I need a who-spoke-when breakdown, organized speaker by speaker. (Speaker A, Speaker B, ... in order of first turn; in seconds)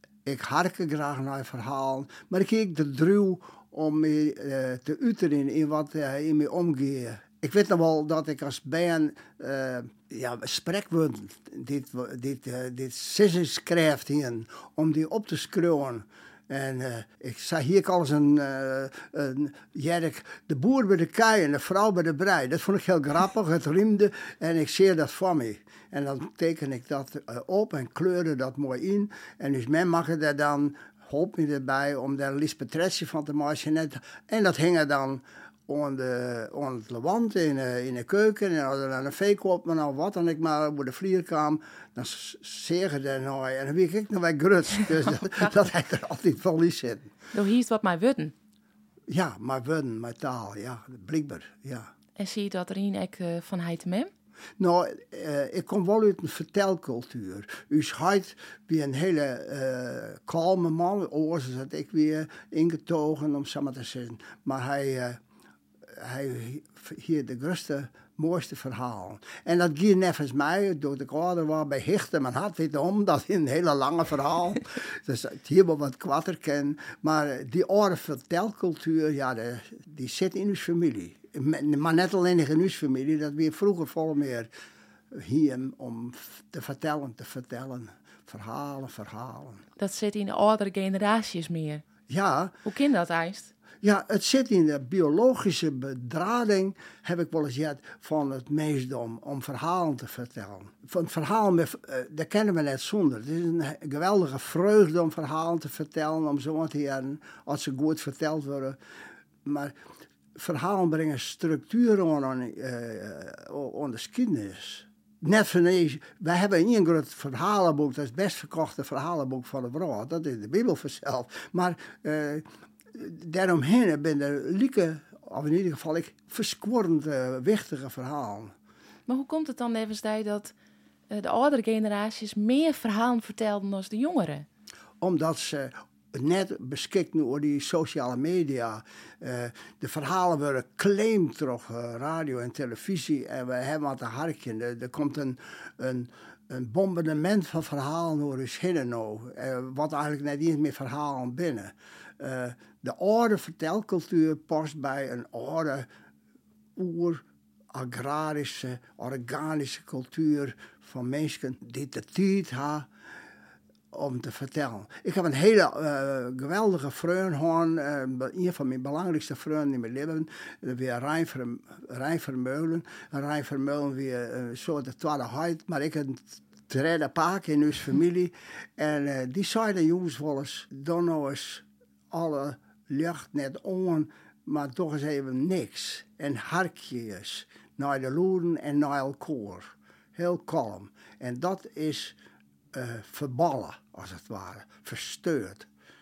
Speaker A: 0.2-47.1, 49.1-51.9, 54.6-65.2, 65.9-84.5, 85.1-89.6, 92.1-92.5, 93.8-108.8, 109.5-109.8, 110.3-128.5, 135.0-155.9, 156.8-162.9, 163.9-192.2, 192.7-195.7
Speaker B: 47.3-48.3, 52.2-54.1, 89.8-91.8, 92.7-93.5, 129.1-130.5, 131.1-134.5